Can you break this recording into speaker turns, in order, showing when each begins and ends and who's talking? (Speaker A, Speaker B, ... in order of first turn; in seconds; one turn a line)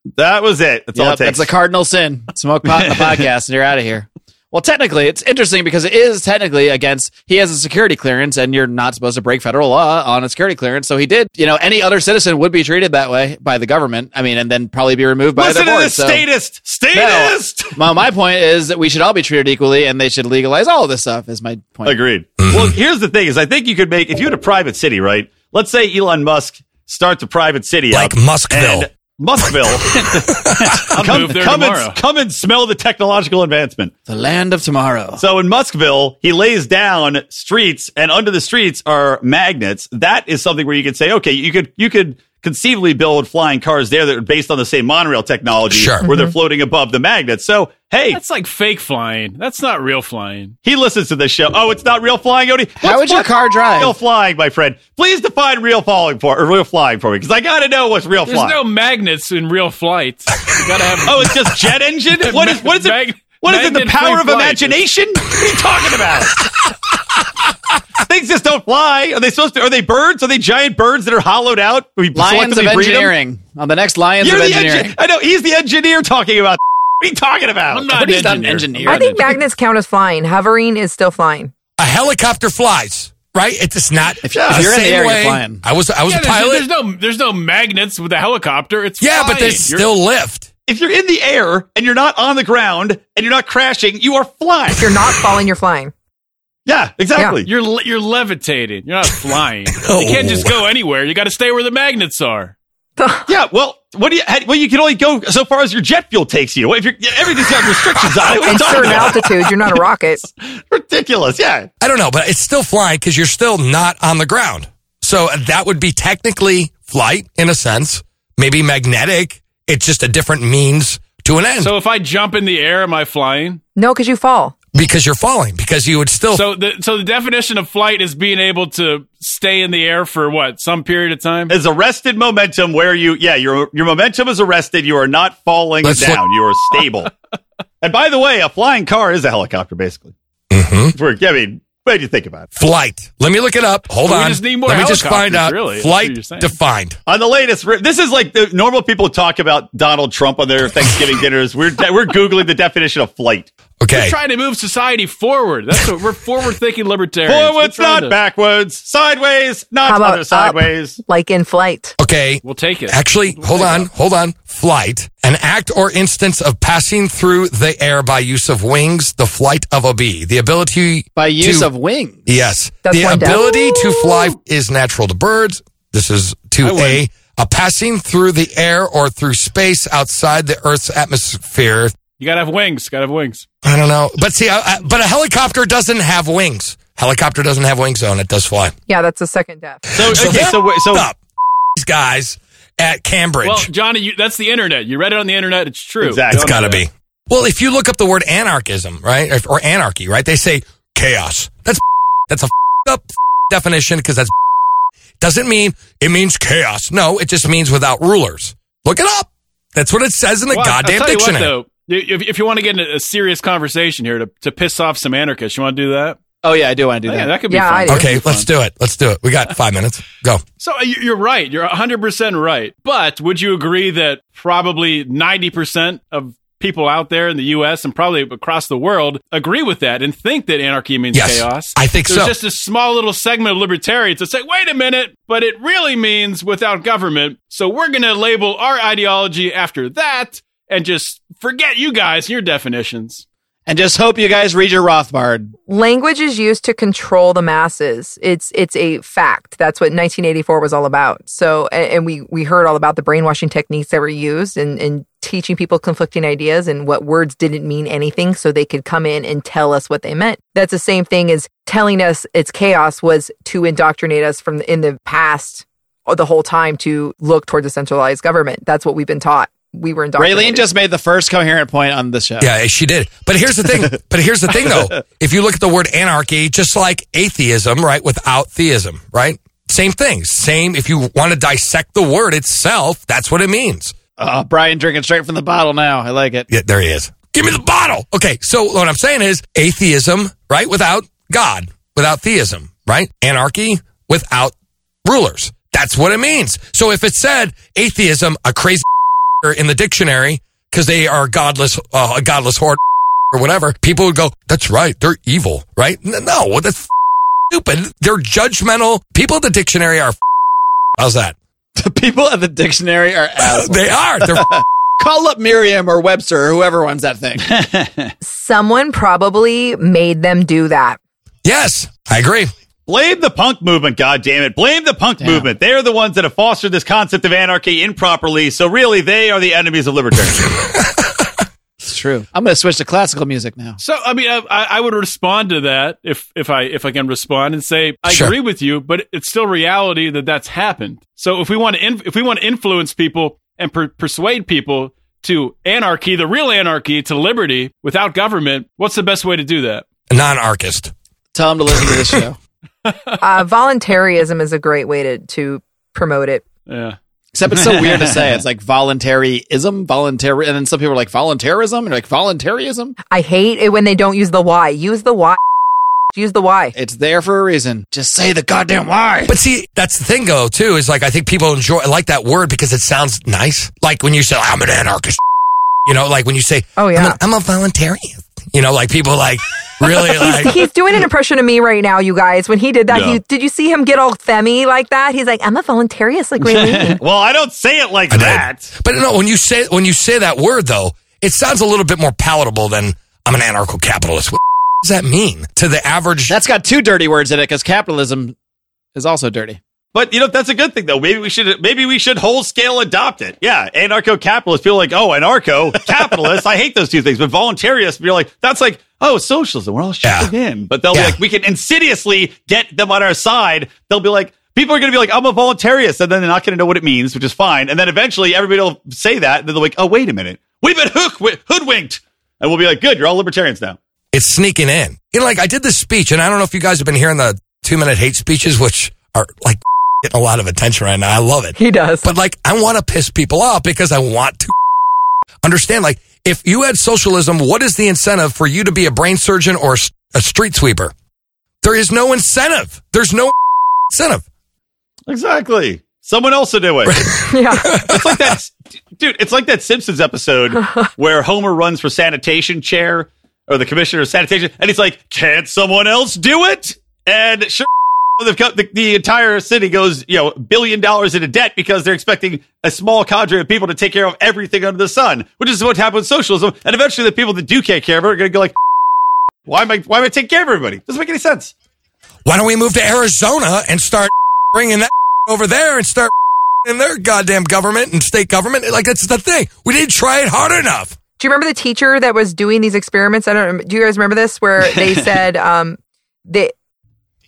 Speaker A: 0.2-1.5
Speaker B: 1.0-16.2
Speaker A: 15.4-17.8
Speaker B: 16.9-22.0
Speaker A: 21.9-33.9
Speaker C: 22.4-22.8
Speaker C: 27.9-28.9
Speaker C: 29.4-29.7
Speaker C: 30.3-31.0
Speaker D: 30.9-32.0
Speaker B: 34.1-35.2
Speaker A: 35.2-48.2
Speaker C: 45.7-46.0
Speaker E: 46.0-46.3
Speaker D: 48.1-50.5
Speaker A: 50.6-58.6
Speaker B: 52.8-54.0
Speaker D: 58.3-61.4
Speaker A: 61.1-66.5
Speaker D: 62.1-64.8
Speaker A: 68.0-73.1
Speaker B: 72.1-74.9
Speaker A: 74.2-77.9
Speaker D: 77.7-79.2
Speaker B: 77.9-79.3
Speaker E: 78.9-81.5
Speaker C: 81.8-86.7
Speaker B: 84.3-85.6
Speaker A: 84.3-84.7
Speaker D: 86.0-89.9
Speaker C: 89.0-90.5
Speaker A: 90.7-94.9
Speaker E: 94.8-95.9
Speaker A: 96.7-97.5
Speaker D: 97.4-102.5
Speaker C: 99.8-100.6
Speaker E: 103.0-103.3
Speaker A: 103.3-109.3
Speaker C: 108.1-109.1
Speaker E: 108.5-110.2
Speaker A: 110.7-111.7
Speaker C: 111.8-121.7
Speaker D: 121.6-123.6
Speaker E: 123.8-124.5
Speaker C: 124.7-126.5
Speaker D: 126.3-131.5
Speaker A: 131.5-137.1
Speaker C: 135.8-136.2
Speaker A: 137.8-140.1
Speaker C: 140.5-140.9
Speaker A: 140.9-142.5
Speaker C: 142.6-147.0
Speaker D: 144.0-146.5
Speaker A: 147.1-153.5
Speaker C: 153.8-154.2
Speaker D: 153.9-158.2
Speaker A: 157.3-161.0
Speaker E: 159.8-162.0
Speaker C: 162.0-171.7
Speaker D: 162.4-163.9
Speaker B: 171.2-172.3
Speaker C: 172.3-181.9
Speaker E: 172.8-173.5
Speaker D: 176.6-177.0
Speaker D: 182.2-183.4
Speaker C: 183.6-188.8
Speaker E: 188.9-189.9
Speaker A: 189.9-191.1
Speaker C: 189.9-191.2
Speaker C: 191.8-193.7
Speaker D: 193.4-196.8
Speaker A: 196.0-196.6
Speaker C: 196.3-204.3
Speaker C: 205.2-211.5
Speaker D: 210.5-216.2
Speaker B: 216.4-217.4
Speaker D: 217.1-218.5
Speaker E: 217.5-218.1
Speaker C: 217.9-220.4
Speaker D: 220.6-243.2
Speaker C: 231.1-232.3
Speaker B: 243.7-245.5
Speaker E: 245.7-270.6
Speaker B: 270.2-272.5
Speaker C: 272.4-283.9
Speaker B: 284.2-286.5
Speaker C: 286.5-294.5
Speaker C: 295.1-298.9
Speaker C: 299.4-302.8
Speaker C: 303.3-306.9
Speaker C: 307.5-310.1
Speaker C: 311.0-311.4
Speaker B: 311.8-317.6
Speaker C: 313.4-314.5
Speaker A: 317.5-318.1
Speaker E: 318.2-321.0
Speaker C: 321.4-322.5
Speaker A: 322.9-330.5
Speaker B: 325.2-325.5
Speaker C: 330.6-331.2
Speaker B: 331.8-333.8
Speaker D: 333.8-349.9
Speaker C: 338.1-338.3
Speaker C: 350.1-350.9
Speaker B: 351.3-352.4
Speaker C: 351.7-352.2
Speaker E: 353.2-356.4
Speaker D: 356.7-357.0
Speaker B: 357.4-363.0
Speaker E: 363.1-365.4
Speaker E: 366.1-366.7
Speaker B: 366.8-369.4
Speaker C: 369.3-375.2
Speaker C: 375.9-380.6
Speaker E: 376.8-377.2
Speaker E: 380.0-387.0
Speaker A: 382.9-383.2
Speaker A: 386.4-388.7
Speaker C: 388.1-396.4
Speaker B: 396.3-398.4
Speaker B: 398.9-399.6
Speaker A: 399.9-423.8
Speaker C: 410.0-410.3
Speaker C: 410.9-411.2
Speaker C: 424.1-434.5
Speaker E: 431.6-432.1
Speaker C: 435.4-440.9
Speaker C: 441.6-443.3
Speaker C: 443.9-444.2
Speaker A: 445.1-447.1
Speaker C: 446.9-448.4
Speaker E: 447.3-447.7
Speaker A: 447.8-457.7
Speaker A: 458.2-468.6
Speaker A: 469.5-471.5
Speaker C: 472.2-476.1
Speaker C: 476.6-481.0
Speaker E: 481.2-486.5